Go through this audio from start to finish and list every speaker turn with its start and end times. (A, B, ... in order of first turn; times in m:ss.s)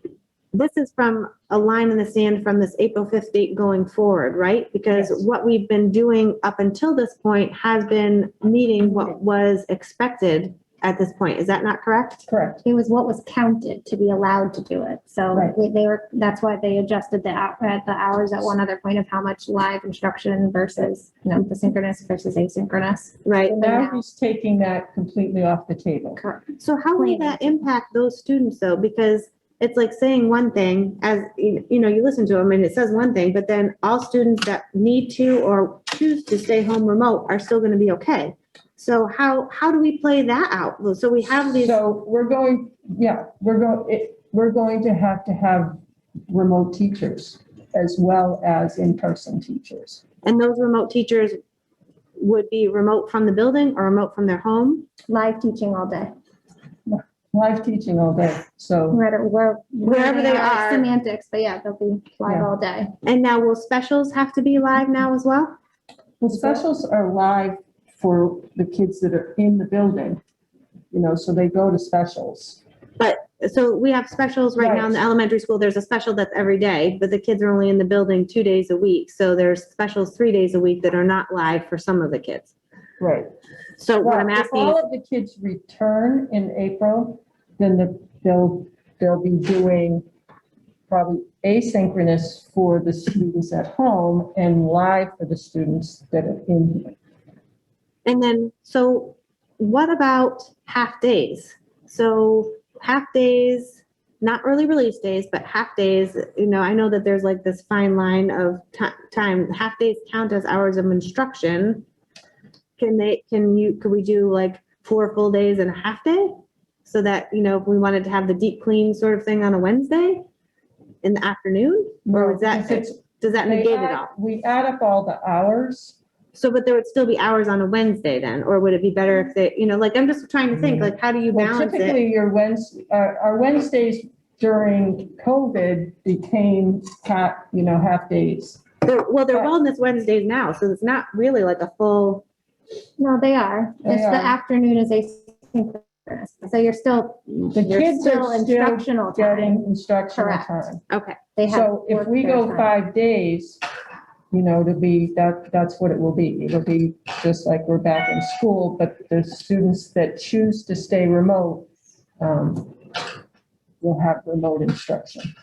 0:00.5-0:12.2 A
0:04.9-0:05.2 B
0:12.3-0:12.6 B
0:12.6-0:24.0 C
0:23.2-0:23.6 A
0:23.5-0:26.2 B
0:26.2-0:27.5 C
0:26.6-0:41.8 A
0:41.6-0:50.0 B
0:50.2-0:51.4 A
0:52.2-0:54.9 A
0:55.1-0:56.1 C
0:56.9-0:59.0 B
0:58.9-1:02.9 C
0:59.8-1:00.9 A
1:02.2-1:02.5 B
1:03.0-1:05.6 A
1:06.2-1:10.2 B
1:10.9-1:12.6 B
1:13.0-1:22.5 A
1:14.6-1:15.0 B
1:23.0-1:23.3 B
1:23.8-1:24.8 A
1:24.0-1:30.0 B
1:30.9-1:37.0 B
1:38.0-1:51.8 A
1:52.8-2:00.2 A
2:01.0-2:04.1 A
2:02.1-2:06.0 B
2:06.3-2:12.0 A
2:10.6-2:18.6 B
2:18.8-2:22.2 A
2:23.0-2:30.5 C
2:23.8-2:24.4 B
2:27.5-2:30.8 B
2:30.9-2:31.2 A
2:31.4-2:32.7 C
2:31.5-2:33.6 B
2:34.3-2:41.7 B
2:42.2-2:42.7 B
2:43.8-2:45.3 B